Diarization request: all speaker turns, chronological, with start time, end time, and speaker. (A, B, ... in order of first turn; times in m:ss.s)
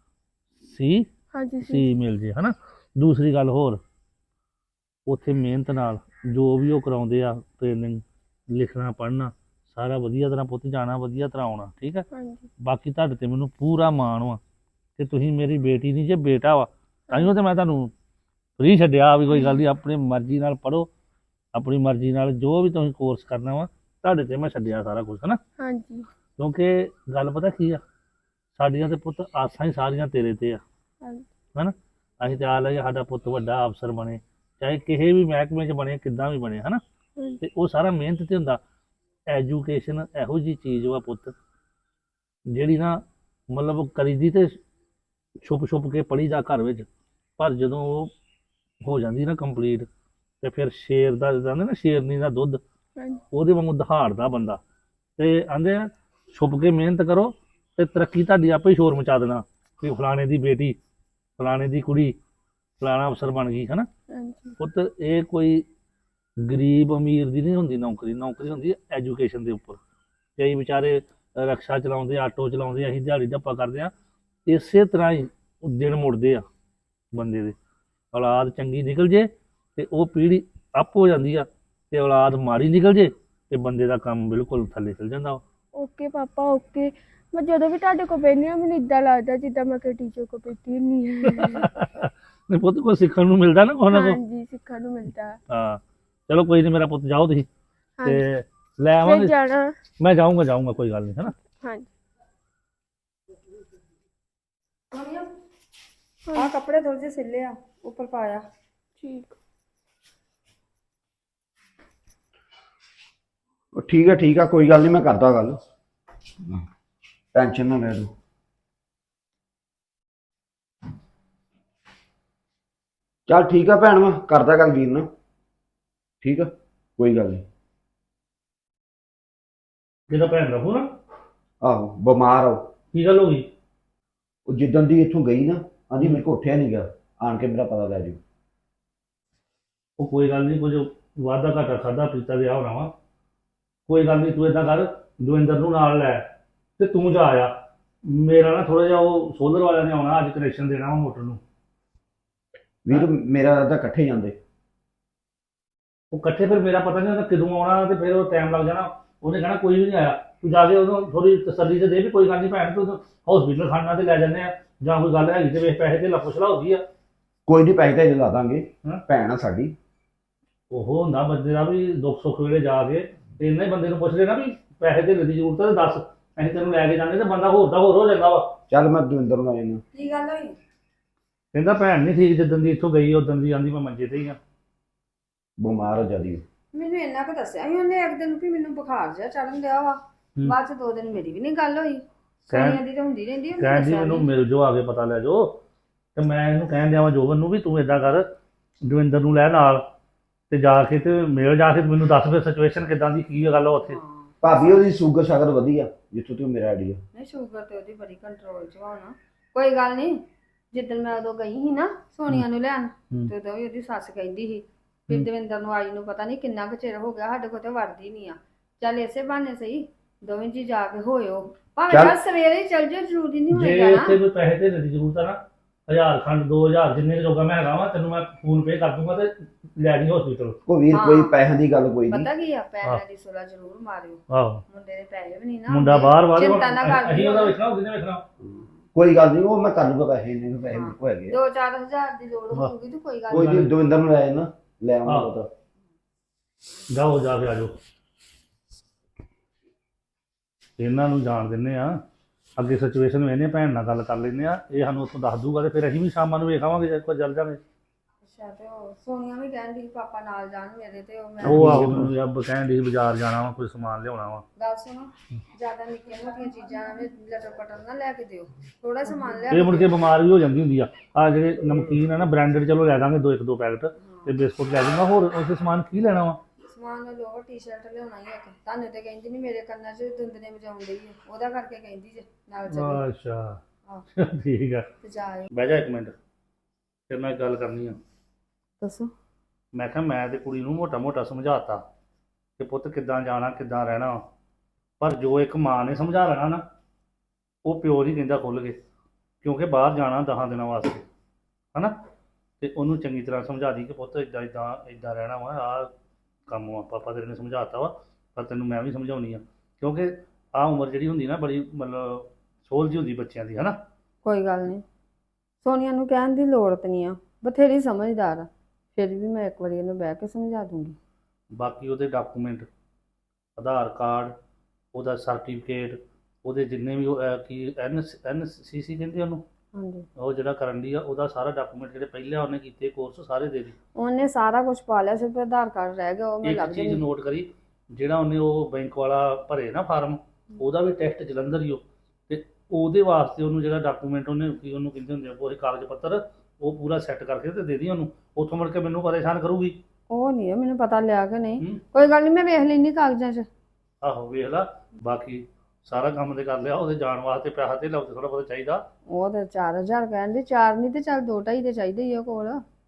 0:00.6-0:01.1 A
0:01.3-0:01.9 B
0:01.6-0:03.8 A
0:05.0-0:12.0 A
0:12.1-0:12.5 B
0:12.6-0:14.4 A
0:15.0-0:17.9 A
0:18.6-0:20.9 A
0:19.3-0:19.6 B
0:21.5-0:25.4 A
0:25.6-0:26.1 B
0:26.4-0:27.8 A
0:28.6-0:30.6 A
0:31.0-0:31.3 B
0:31.5-0:36.8 A
0:37.4-0:38.6 A
0:39.3-0:41.3 A
0:42.5-0:43.0 A
0:43.5-0:44.6 A
0:45.4-0:46.9 A
0:47.4-0:48.1 A
0:48.8-0:49.9 A
0:50.4-0:52.6 A
0:53.3-0:54.6 A
0:55.2-1:00.8 A
1:01.4-1:02.2 A
1:02.8-1:03.9 A
1:04.1-1:04.5 B
1:04.6-1:05.6 A
1:06.4-1:09.8 A
1:10.4-1:13.9 A
1:14.5-1:16.4 A
1:17.1-1:17.6 A
1:18.1-1:25.4 A
1:25.8-1:31.7 B
1:31.2-1:34.2 A
1:33.9-1:35.4 B
1:35.5-1:37.5 A
1:38.0-1:39.4 A
1:39.0-1:39.7 B
1:40.0-1:41.3 A
1:41.6-1:41.9 B
1:44.9-1:45.3 C
1:46.4-1:48.4 C
1:49.0-1:49.4 B
1:53.7-1:55.6 D
1:57.3-1:58.1 D
2:03.3-2:05.1 D
2:06.2-2:07.4 D
2:10.1-2:10.9 A
2:11.6-2:12.7 D
2:12.9-2:13.5 A
2:14.5-2:18.2 D
2:20.0-2:22.9 A
2:23.9-2:26.2 A
2:26.8-2:27.5 A
2:28.0-2:31.4 A
2:32.8-2:34.4 D
2:36.1-2:46.8 A
2:47.4-2:49.7 D
2:50.7-2:58.5 A
2:58.7-2:59.8 D
2:59.9-3:00.6 C
3:01.5-3:04.4 A
3:05.6-3:06.4 D
3:06.7-3:14.3 C
3:12.5-3:12.8 A
3:13.6-3:15.6 A
3:16.2-3:18.3 A
3:18.8-3:19.8 A
3:20.5-3:24.0 A
3:23.8-3:24.3 C
3:24.4-3:27.0 D
3:27.1-3:44.2 C
3:41.9-3:42.2 D
3:43.5-3:50.6 A
3:50.6-3:52.2 D
3:50.9-3:51.3 C
3:52.1-3:57.6 C
3:54.3-3:54.6 A
3:55.7-3:58.2 A
3:58.9-4:01.4 D
4:00.7-4:03.5 C
4:03.3-4:05.5 D
4:03.3-4:03.7 A
4:05.0-4:05.3 A
4:06.9-4:07.8 A
4:10.8-4:12.0 A
4:12.6-4:17.6 A
4:18.2-4:22.1 C
4:21.4-4:24.4 A
4:21.5-4:21.8 D
4:24.6-4:30.0 C
4:29.5-4:36.4 A
4:34.0-4:34.3 C
4:36.7-4:43.0 C
4:42.7-4:43.6 A
4:44.2-4:44.8 A
4:45.0-4:45.5 C
4:45.5-4:46.1 A
4:47.1-4:48.0 A
4:48.8-4:49.1 C
4:49.7-4:51.8 A
4:52.6-4:54.2 A
4:55.0-4:56.6 A
4:57.6-4:58.8 A
4:59.4-5:01.0 A
5:02.6-5:05.9 A
5:06.5-5:13.8 A
5:14.2-5:14.8 C
5:15.6-5:21.0 C
5:21.5-5:22.7 A
5:23.6-5:24.3 A
5:24.9-5:29.4 A
5:29.7-5:30.1 C
5:30.2-5:33.7 A
5:34.0-5:37.0 C
5:36.4-5:49.8 A
5:50.1-5:53.4 C
5:54.0-5:58.8 A
5:59.1-6:02.6 C